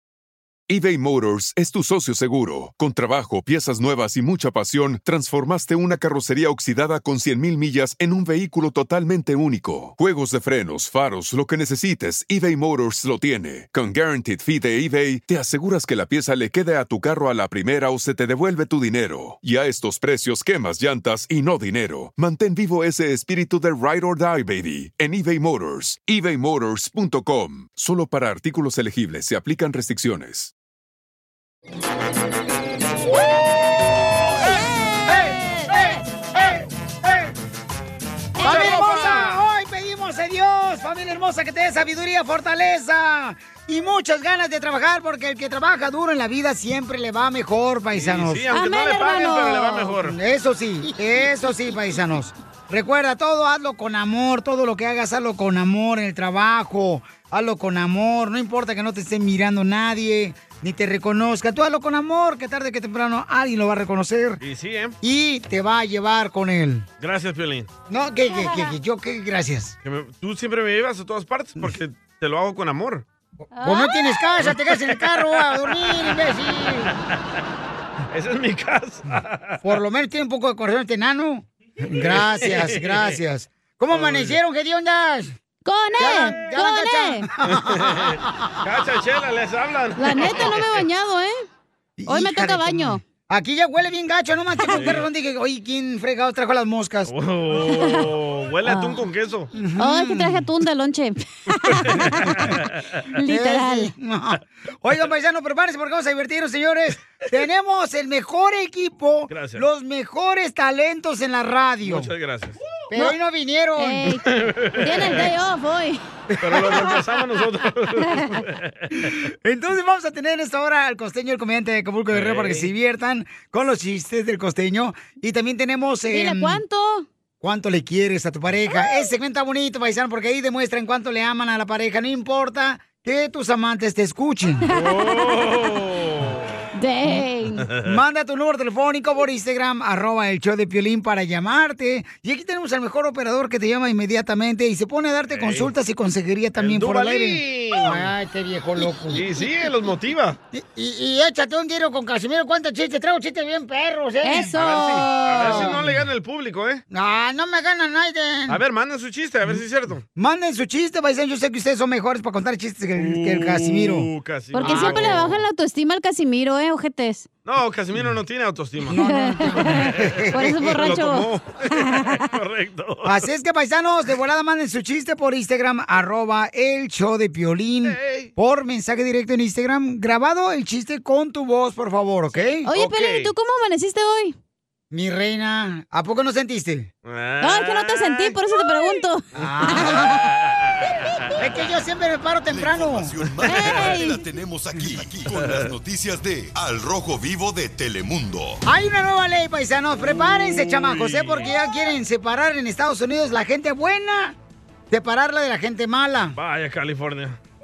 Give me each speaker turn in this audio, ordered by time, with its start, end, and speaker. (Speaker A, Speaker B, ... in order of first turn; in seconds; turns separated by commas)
Speaker A: 0.7-30.5, Speaker B: 34.4-36.0, Speaker C: 35.0-37.3, Speaker B: 38.4-39.3, Speaker C: 38.4-48.5, Speaker D: 38.4-39.4, Speaker D: 47.9-50.1, Speaker B: 48.5-49.9, Speaker C: 50.0-64.4, Speaker D: 64.4-65.0, Speaker C: 65.0-66.8, Speaker D: 67.0-67.7, Speaker C: 67.9-69.8, Speaker B: 68.3-68.7, Speaker D: 69.8-73.0, Speaker B: 73.5-74.2, Speaker C: 73.6-76.9, Speaker D: 74.4-76.1, Speaker D: 78.1-79.6, Speaker C: 79.6-85.3, Speaker D: 82.0-83.2, Speaker D: 83.9-84.4, Speaker B: 85.6-87.3, Speaker C: 86.0-88.6, Speaker D: 87.5-90.8, Speaker B: 90.0-91.4, Speaker C: 92.0-97.1, Speaker B: 92.1-93.0, Speaker B: 94.6-95.0, Speaker D: 94.7-95.1, Speaker D: 97.1-99.5, Speaker B: 97.7-98.1, Speaker B: 98.6-99.0, Speaker C: 99.5-100.5, Speaker B: 99.8-102.5, Speaker D: 101.9-102.5, Speaker C: 103.2-112.1, Speaker B: 103.2-103.9, Speaker D: 109.3-109.6, Speaker D: 111.8-112.6, Speaker C: 112.9-114.2, Speaker B: 113.8-114.2, Speaker D: 114.2-115.3, Speaker B: 114.8-116.0, Speaker C: 116.3-117.0, Speaker D: 116.4-118.9, Speaker B: 118.1-118.4, Speaker C: 119.0-126.6, Speaker D: 122.1-122.7, Speaker B: 126.1-127.0, Speaker C: 127.4-134.6, Speaker B: 134.7-135.3, Speaker D: 134.7-136.6, Speaker B: 136.7-137.6, Speaker D: 137.6-137.9, Speaker C: 137.8-149.4, Speaker D: 145.3-145.7, Speaker D: 146.6-148.1, Speaker D: 148.8-150.4, Speaker C: 150.5-155.8, Speaker B: 154.2-155.8, Speaker D: 154.6-156.8, Speaker C: 156.9-158.6, Speaker D: 158.5-160.0, Speaker C: 160.2-165.3, Speaker D: 163.0-165.3, Speaker B: 164.5-167.3, Speaker D: 167.4-168.9, Speaker C: 168.8-170.7, Speaker B: 169.0-169.7, Speaker D: 169.7-170.0, Speaker B: 170.3-172.2, Speaker D: 170.6-173.2, Speaker C: 173.0-182.7, Speaker D: 177.8-178.3, Speaker B: 182.6-184.3, Speaker D: 182.7-183.3, Speaker C: 184.9-186.9, Speaker D: 187.0-188.3, Speaker B: 187.4-190.1, Speaker C: 189.3-190.2, Speaker C: 191.4-193.2, Speaker E: 192.5-198.6, Speaker B: 193.4-194.2, Speaker D: 195.3-195.7, Speaker C: 198.6-204.3, Speaker D: 200.1-201.5, Speaker C: 204.9-206.3, Speaker D: 206.3-207.4